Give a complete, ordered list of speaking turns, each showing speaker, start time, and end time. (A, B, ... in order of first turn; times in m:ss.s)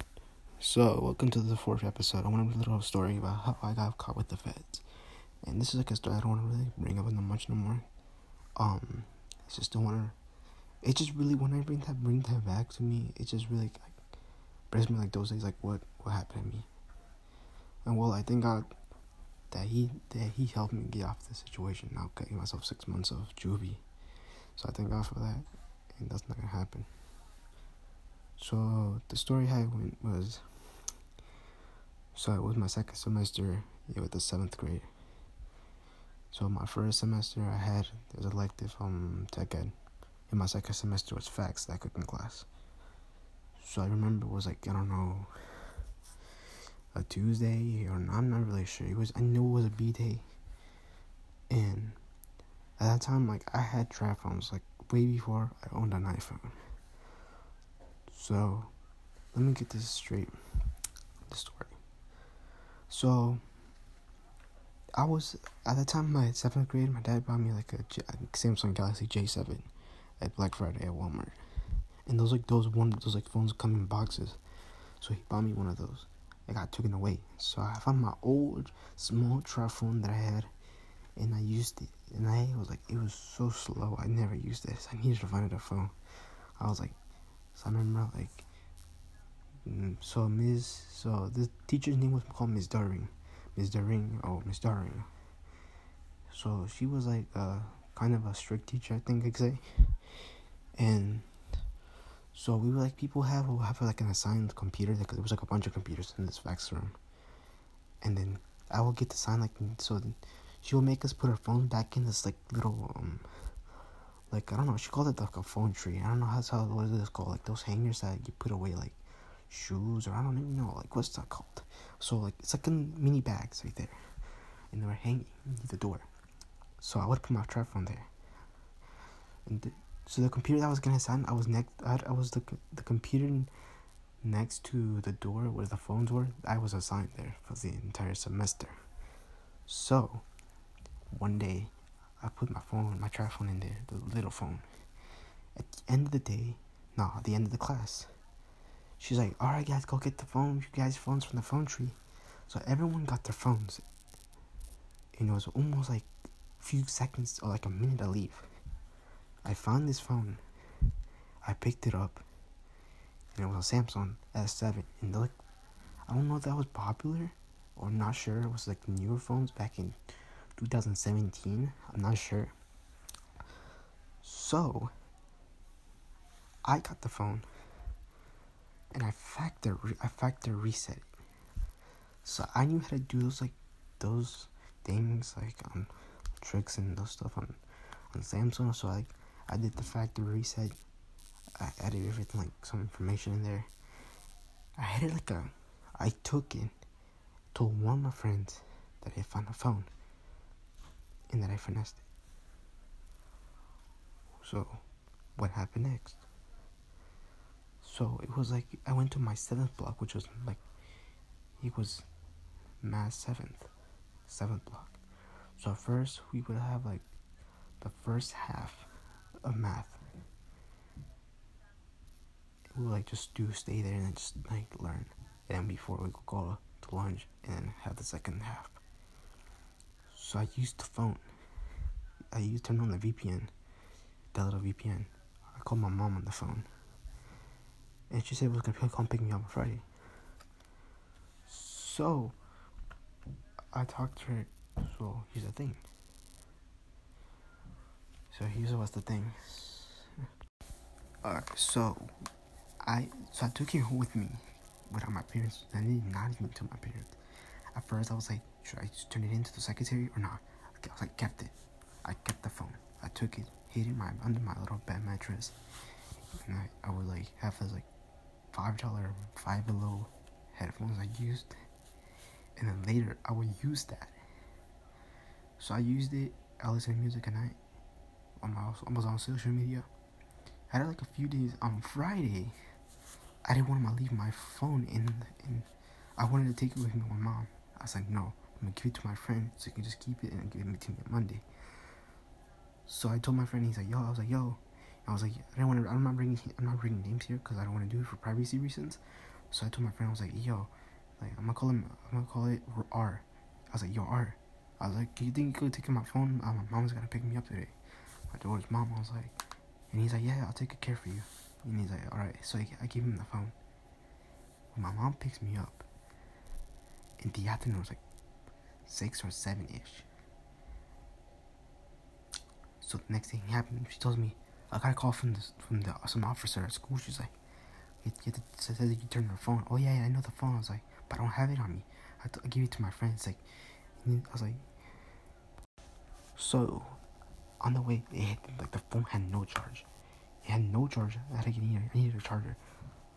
0:00.6-0:04.8 A
0:05.4-0:07.8 A
0:08.6-0:10.2 A
0:10.8-0:14.0 A
0:14.7-0:16.7 A
0:17.8-0:18.7 A
0:19.5-0:23.8 A
0:24.6-0:26.9 A
0:28.4-0:30.5 A
0:32.1-0:34.9 A
0:36.3-0:39.7 A
0:40.3-0:42.5 A
0:43.6-0:45.6 A
0:46.9-0:50.2 A
0:51.5-0:52.0 A
0:52.8-0:56.6 A
0:58.1-0:58.7 A
0:59.3-1:00.4 A
1:01.3-1:01.7 A
1:02.9-1:03.4 A
1:05.0-1:11.4 A
1:12.0-1:14.4 A
1:15.0-1:20.5 A
1:21.2-1:25.9 A
1:26.6-1:27.0 A
1:27.5-1:28.4 A
1:29.6-1:35.1 A
1:36.3-1:40.0 A
1:40.8-1:41.3 A
1:42.3-1:47.0 A
1:48.0-1:53.3 A
1:54.3-2:04.0 A
2:04.7-2:06.0 A
2:06.8-2:08.1 A
2:09.4-2:13.5 A
2:14.2-2:18.8 A
2:19.7-2:20.2 A
2:21.1-2:24.6 A
2:25.5-2:28.1 A
2:29.0-2:33.8 A
2:35.1-2:38.5 A
2:39.4-2:40.4 A
2:41.4-2:42.2 A
2:43.3-2:45.3 A
2:46.1-2:50.0 A
2:50.6-2:52.5 A
2:54.2-2:54.9 A
2:56.6-2:57.4 A
2:58.9-3:01.0 A
3:02.2-3:07.6 A
3:08.1-3:10.8 A
3:11.5-3:13.7 A
3:14.8-3:16.7 A
3:17.5-3:19.9 A
3:21.3-3:22.0 A
3:24.4-3:24.8 A
3:25.4-3:26.2 A
3:27.8-3:30.6 A
3:31.6-3:32.0 A
3:32.8-3:33.7 A
3:34.2-3:35.0 A
3:35.6-3:37.0 A
3:37.8-3:38.9 A
3:39.4-3:40.0 A
3:42.7-3:48.8 A
3:50.1-3:51.2 A
3:52.3-3:53.5 A
3:54.3-3:56.7 A
3:58.1-3:59.8 A
4:01.5-4:02.4 A
4:03.7-4:05.8 A
4:08.3-4:10.1 A
4:11.2-4:12.1 A
4:12.8-4:17.2 A
4:17.7-4:25.6 A
4:26.4-4:27.9 A
4:28.5-4:31.5 A
4:32.6-4:34.1 A
4:35.6-4:37.6 A
4:38.4-4:39.9 A
4:40.7-4:42.5 A
4:43.4-4:51.4 A
4:52.9-5:07.7 A
5:08.3-5:09.4 A
5:09.9-5:13.5 A
5:14.7-5:15.8 A
5:17.2-5:18.0 A
5:18.8-5:20.1 A
5:22.8-5:27.3 A
5:28.0-5:33.4 A
5:34.0-5:34.7 A
5:36.4-5:37.0 A
5:37.6-5:39.9 A
5:40.4-5:42.6 A